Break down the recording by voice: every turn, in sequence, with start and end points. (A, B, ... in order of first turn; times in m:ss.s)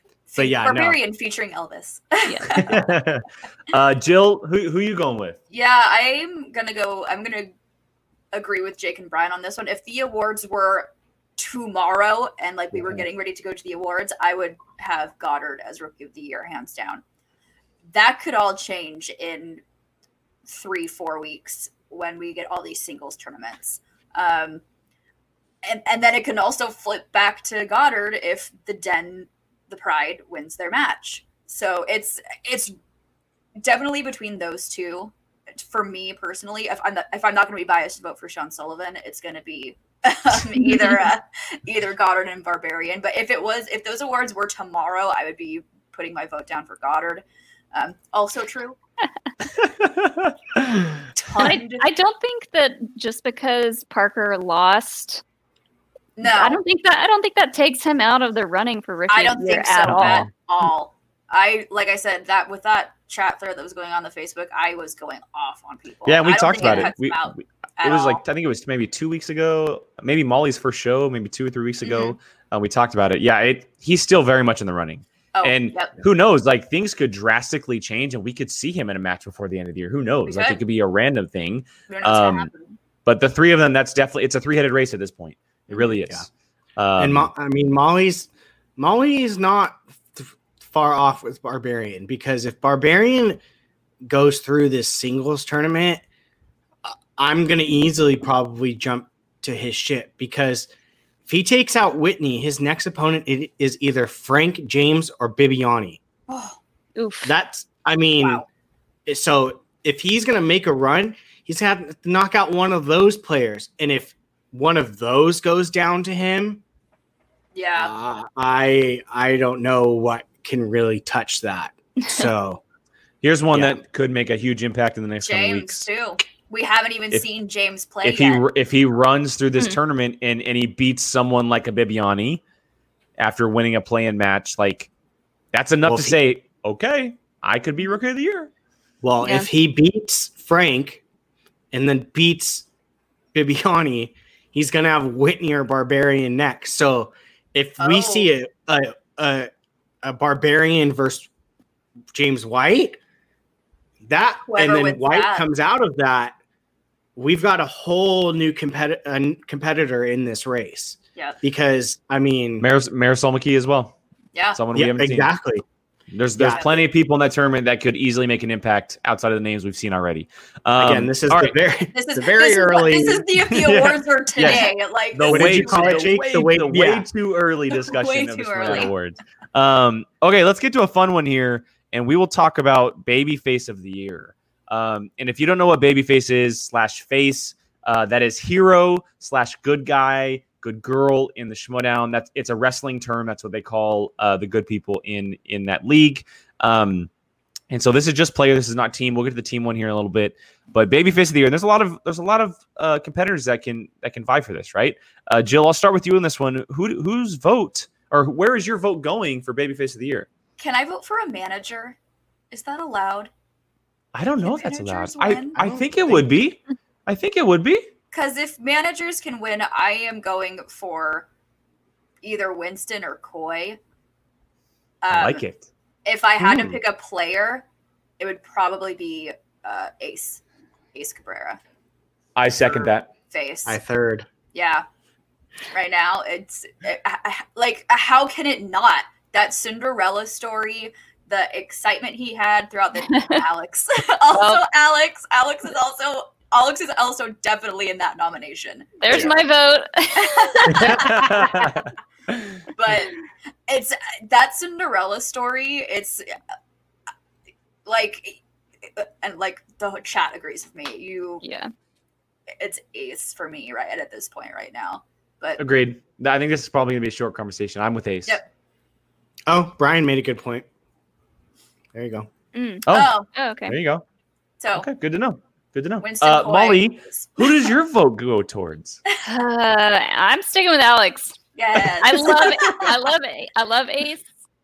0:00.3-0:02.8 A
0:00.4-0:01.0 B
0:02.2-0:02.6 C
0:02.5-0:05.4 D
0:05.5-0:07.5 A
0:08.3-0:17.0 A
0:12.7-0:13.0 B
0:17.9-0:19.6 A
0:20.5-0:24.6 A
0:25.6-0:32.7 A
0:33.6-0:48.8 A
0:49.6-0:50.3 D
0:51.2-0:51.8 A
0:51.4-0:55.2 C
0:56.2-0:56.6 A
0:56.2-1:00.3 C
0:59.1-1:08.2 A
0:59.8-1:00.3 D
1:06.0-1:22.5 D
1:11.8-1:12.2 A
1:15.3-1:16.0 A
1:20.2-1:20.6 A
1:21.9-1:22.7 A
1:23.0-1:27.3 D
1:27.0-1:33.4 B
1:34.0-1:36.0 B
1:36.8-1:40.7 B
1:41.2-1:46.0 B
1:46.3-1:46.6 A
1:47.0-1:47.3 C
1:47.2-1:48.4 B
1:48.2-1:48.4 A
1:49.0-1:56.6 B
1:57.5-1:57.9 A
1:57.8-2:02.6 B
2:03.2-2:05.9 D
2:03.5-2:03.8 B
2:05.2-2:08.4 A
2:08.0-2:12.4 D
2:13.2-2:14.9 D
2:15.5-2:18.5 D
2:15.8-2:16.2 B
2:19.0-2:21.0 B
2:19.2-2:19.5 C
2:21.7-2:22.6 B
2:23.3-2:29.5 B
2:27.8-2:28.3 A
2:30.0-2:31.3 B
2:32.1-2:33.0 B
2:34.0-2:36.4 B
2:34.5-2:35.4 A
2:37.2-2:42.6 B
2:42.6-2:44.0 D
2:44.5-2:45.3 D
2:44.7-2:45.6 B
2:46.1-2:51.5 D
2:46.3-2:46.8 B
2:50.7-2:54.6 B
2:51.9-2:56.2 A
2:53.5-3:17.1 D
2:55.2-2:57.1 B
2:57.7-2:58.9 A
3:17.7-3:30.3 D
3:30.6-3:32.0 A
3:32.5-3:33.3 A
3:34.1-3:37.9 D
3:34.4-3:35.6 A
3:35.6-3:36.3 B
3:38.1-3:41.3 A
3:42.2-3:43.8 A
3:45.0-3:45.4 A
3:45.1-3:45.7 D
3:46.0-3:47.6 A
3:46.4-3:46.8 B
3:48.2-3:50.4 A
3:50.9-3:51.6 A
3:52.4-3:53.1 D
3:53.3-3:53.8 A
3:53.6-3:54.2 B
3:54.5-3:54.8 A
3:55.7-4:09.3 A
4:04.3-4:04.6 C
4:09.0-4:11.0 C
4:10.2-4:11.7 A
4:10.7-4:12.5 D
4:12.7-4:16.3 A
4:17.8-4:21.4 A
4:21.4-4:21.7 C
4:22.6-4:25.6 A
4:25.6-4:28.4 D
4:29.5-4:30.7 B
4:31.9-4:32.3 B
4:32.5-4:33.8 C
4:32.9-4:33.1 D
4:32.9-4:33.3 A
4:33.7-4:34.0 D
4:34.6-4:34.8 A
4:34.7-4:39.0 D
4:36.0-4:37.7 A
4:39.2-4:41.4 C
4:41.6-4:42.9 A
4:42.0-4:44.2 C